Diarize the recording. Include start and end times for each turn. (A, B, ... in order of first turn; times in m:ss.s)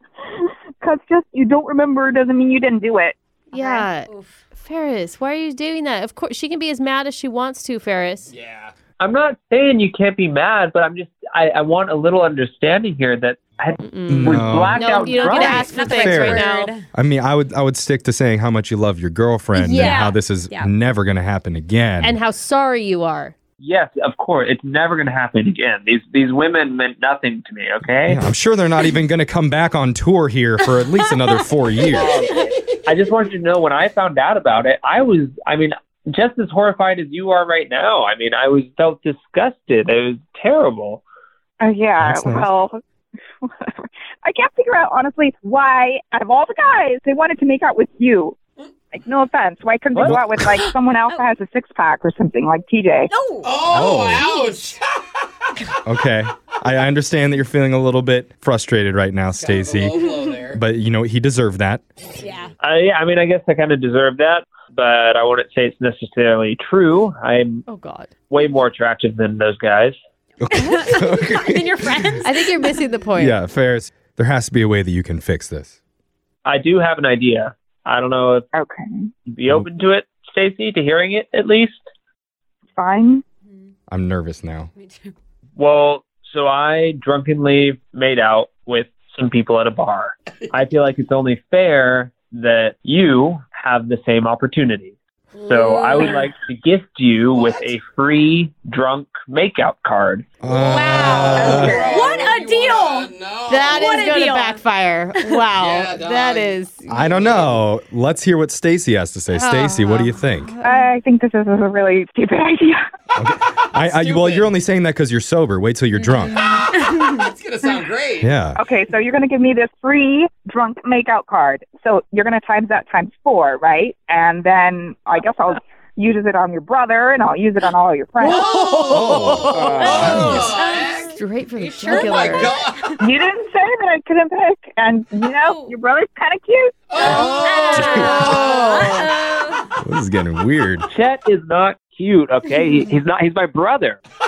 0:00.3-0:03.9 A
0:03.5-0:08.3 B
0:04.0-0:04.4 C
0:08.3-0:08.7 D
0:09.0-0:15.8 E
0:13.8-0:16.7 B
0:14.1-0:14.8 F
0:15.3-0:16.8 C
0:15.4-0:22.2 F
0:19.5-0:20.0 B
0:19.7-0:20.7 C
0:22.0-0:23.3 B
0:23.6-0:28.2 E
0:28.1-0:32.2 F
0:30.7-0:31.3 C
0:31.9-0:41.0 E
0:41.6-0:42.8 A
0:42.0-0:42.5 F
0:43.4-0:48.4 A
0:48.9-0:53.1 A
0:49.9-0:50.2 E
0:50.0-0:50.5 F
0:53.1-0:54.6 C
0:53.4-0:55.2 D
0:53.7-0:54.3 F
0:55.8-1:01.8 F
0:59.3-1:00.6 D
1:02.2-1:02.5 C
1:02.6-1:07.6 E
1:07.7-1:08.1 B
1:08.3-1:10.0 E
1:10.4-1:12.0 F
1:10.4-1:12.6 C
1:12.2-1:13.4 B
1:13.2-1:15.8 F
1:16.4-1:18.5 E
1:18.5-1:19.1 A
1:19.3-1:21.8 E
1:22.7-1:23.2 A
1:23.5-1:23.7 C
1:23.9-1:24.7 F
1:24.7-1:25.1 C
1:25.6-1:40.2 E
1:35.3-1:36.2 C
1:37.3-1:37.7 D
1:40.4-1:41.8 F
1:40.4-1:44.1 D
1:40.7-1:41.9 B
1:41.4-1:43.1 C
1:41.4-1:42.1 A
1:43.5-1:47.2 B
1:43.7-1:45.5 C
1:45.5-1:47.6 D
1:46.9-1:50.5 F
1:49.3-1:50.8 B
1:50.6-1:52.8 A
1:53.2-1:56.4 F
1:53.7-1:54.5 D
1:56.0-1:57.0 C
1:56.4-1:58.4 D
1:58.2-1:58.6 F
1:58.5-2:08.4 A
2:08.2-2:10.5 B
2:08.2-2:11.2 D
2:08.9-2:10.5 F
2:09.5-2:09.9 E
2:10.5-2:12.9 C
2:11.1-2:12.5 B
2:11.9-2:12.9 D
2:13.0-2:18.3 A
2:15.4-2:15.7 C
2:16.9-2:19.0 D
2:17.0-2:19.7 C
2:17.8-2:19.1 B
2:19.8-2:20.9 F
2:20.9-2:24.0 E